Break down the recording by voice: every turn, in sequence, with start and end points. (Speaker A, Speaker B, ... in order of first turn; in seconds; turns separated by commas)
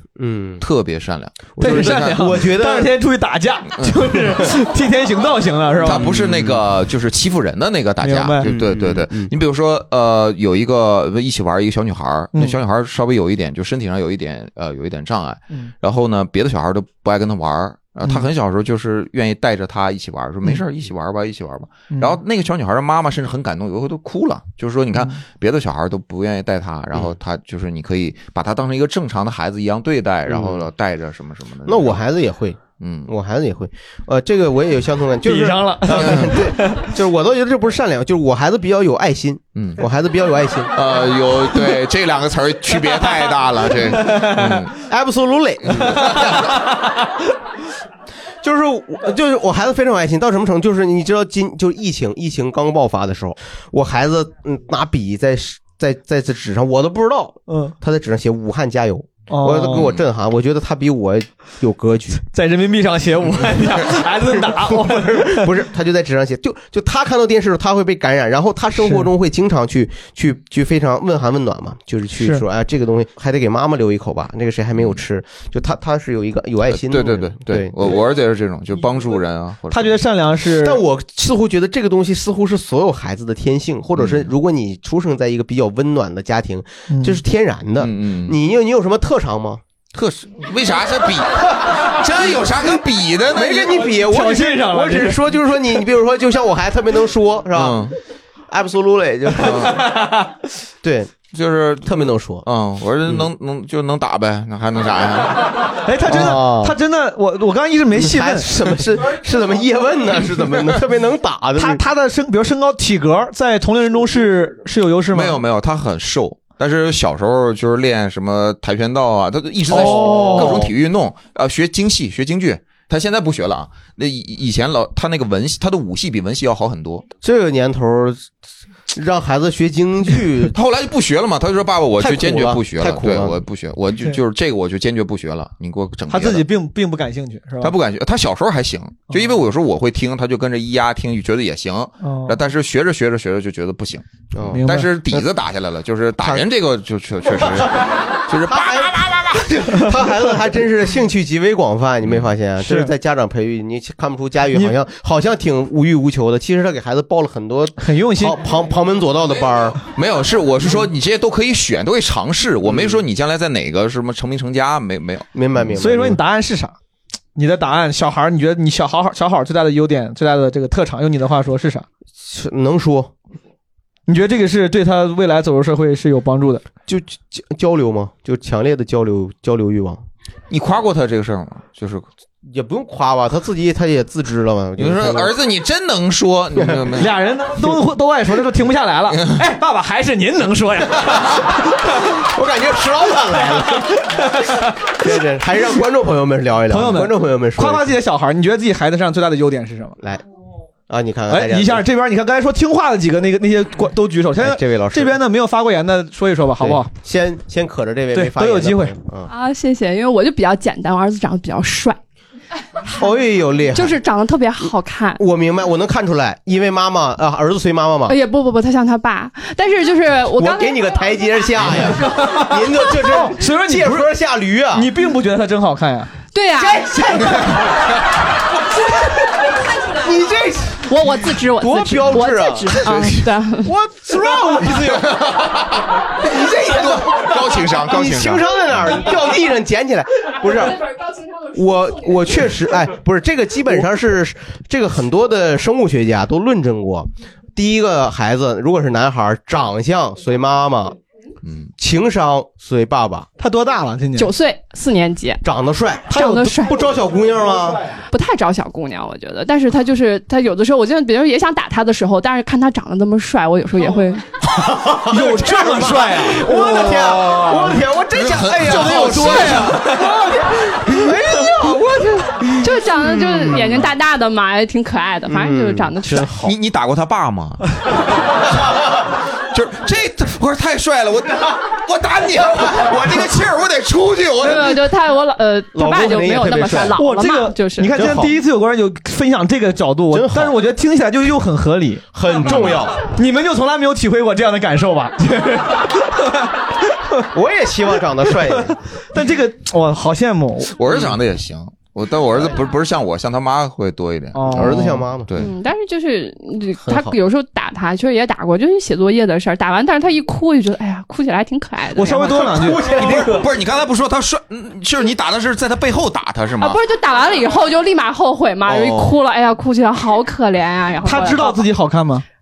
Speaker A: 0.2-0.6, Speaker B: 0.6-2.3, Speaker A: 1.6-2.9, Speaker C: 1.6-6.1, Speaker B: 3.8-4.3, Speaker B: 5.8-32.0, Speaker A: 5.8-6.6, Speaker C: 8.0-8.5, Speaker A: 8.4-9.3, Speaker C: 21.9-22.1, Speaker A: 30.3-30.6, Speaker A: 31.6-40.8, Speaker B: 32.7-33.1, Speaker C: 35.2-36.9, Speaker B: 35.9-36.3, Speaker B: 39.5-39.8, Speaker B: 40.7-44.7, Speaker C: 43.9-44.6, Speaker A: 44.8-46.3, Speaker B: 45.7-46.4, Speaker A: 48.4-62.2, Speaker C: 57.5-57.7, Speaker C: 59.3-59.9, Speaker C: 62.3-65.5, Speaker A: 64.2-77.7, Speaker C: 68.8-69.1, Speaker B: 76.8-80.0, Speaker C: 79.7-80.8, Speaker A: 80.6-89.6, Speaker B: 84.0-84.3, Speaker C: 86.9-87.2, Speaker B: 87.8-88.3, Speaker B: 89.9-93.6, Speaker A: 93.3-97.9, Speaker C: 93.6-95.2, Speaker B: 97.5-97.9, Speaker A: 98.5-99.8, Speaker B: 99.4-99.8, Speaker A: 100.8-101.2, Speaker B: 101.3-101.9, Speaker A: 101.8-102.4, Speaker B: 102.4-105.5, Speaker C: 105.8-108.5, Speaker A: 106.1-106.8, Speaker A: 107.9-111.8, Speaker C: 111.5-115.4, Speaker B: 115.1-127.0, Speaker C: 119.7-120.7, Speaker A: 119.7-120.7, Speaker A: 127.2-128.3, Speaker A: 128.9-130.5, Speaker B: 130.5-136.4, Speaker A: 132.0-133.4, Speaker C: 136.1-137.7, Speaker B: 137.6-149.6, Speaker C: 139.1-139.4, Speaker C: 142.0-142.4, Speaker A: 144.3-145.2, Speaker C: 144.5-145.0, Speaker A: 148.5-159.8, Speaker C: 152.6-152.9, Speaker C: 157.8-158.4, Speaker B: 159.8-165.3, Speaker A: 162.7-163.0, Speaker A: 165.3-166.2, Speaker C: 165.7-166.7, Speaker C: 167.3-171.8, Speaker A: 172.2-173.1, Speaker C: 174.1-176.6, Speaker A: 176.9-180.0, Speaker B: 180.5-182.1, Speaker A: 182.5-185.3, Speaker B: 184.8-187.1, Speaker A: 186.6-186.8, Speaker C: 186.9-191.8, Speaker A: 192.2-193.9, Speaker C: 194.1-194.7, Speaker A: 194.9-197.9, Speaker C: 196.7-200.0, Speaker A: 200.9-201.8, Speaker C: 201.3-206.9, Speaker A: 204.4-205.2, Speaker A: 206.6-209.3, Speaker C: 208.1-208.9, Speaker D: 209.3-212.0, Speaker D: 212.9-213.2, Speaker A: 213.0-214.0, Speaker D: 213.7-215.2, Speaker A: 215.2-218.2, Speaker D: 218.1-221.1, Speaker A: 220.3-224.9, Speaker C: 223.1-224.1, Speaker C: 224.7-226.1, Speaker D: 226.3-226.9, Speaker A: 226.6-227.5, Speaker A: 229.8-230.9, Speaker D: 230.8-233.7, Speaker A: 231.5-235.3, Speaker C: 234.3-235.0, Speaker B: 235.1-235.6, Speaker A: 236.2-240.9, Speaker B: 236.6-238.4, Speaker A: 241.4-251.0, Speaker B: 251.4-251.7, Speaker A: 251.8-253.3, Speaker C: 253.4-254.3, Speaker D: 254.2-255.4, Speaker A: 255.4-257.8, Speaker D: 256.1-256.9, Speaker C: 256.1-256.5, Speaker D: 258.1-264.2, Speaker A: 264.6-272.3, Speaker C: 264.9-267.7, Speaker B: 268.1-269.8, Speaker C: 268.6-270.2, Speaker D: 272.5-276.3, Speaker A: 273.3-273.8, Speaker A: 275.3-276.5, Speaker B: 276.3-277.6, Speaker B: 279.5-284.9, Speaker D: 284.4-287.9, Speaker A: 285.7-287.0, Speaker C: 286.9-292.1, Speaker A: 287.9-288.3, Speaker A: 290.1-290.6, Speaker A: 292.1-293.0, Speaker B: 292.4-292.8, Speaker C: 293.0-297.2, Speaker A: 297.3-298.8, Speaker C: 299.1-301.0, Speaker B: 300.7-305.5, Speaker C: 304.3-305.0, Speaker A: 304.5-305.3, Speaker D: 305.4-312.5, Speaker A: 306.8-307.1, Speaker C: 311.9-313.2, Speaker A: 312.5-313.4, Speaker B: 312.8-316.8, Speaker D: 316.6-321.6, Speaker B: 318.7-319.1, Speaker C: 321.0-322.2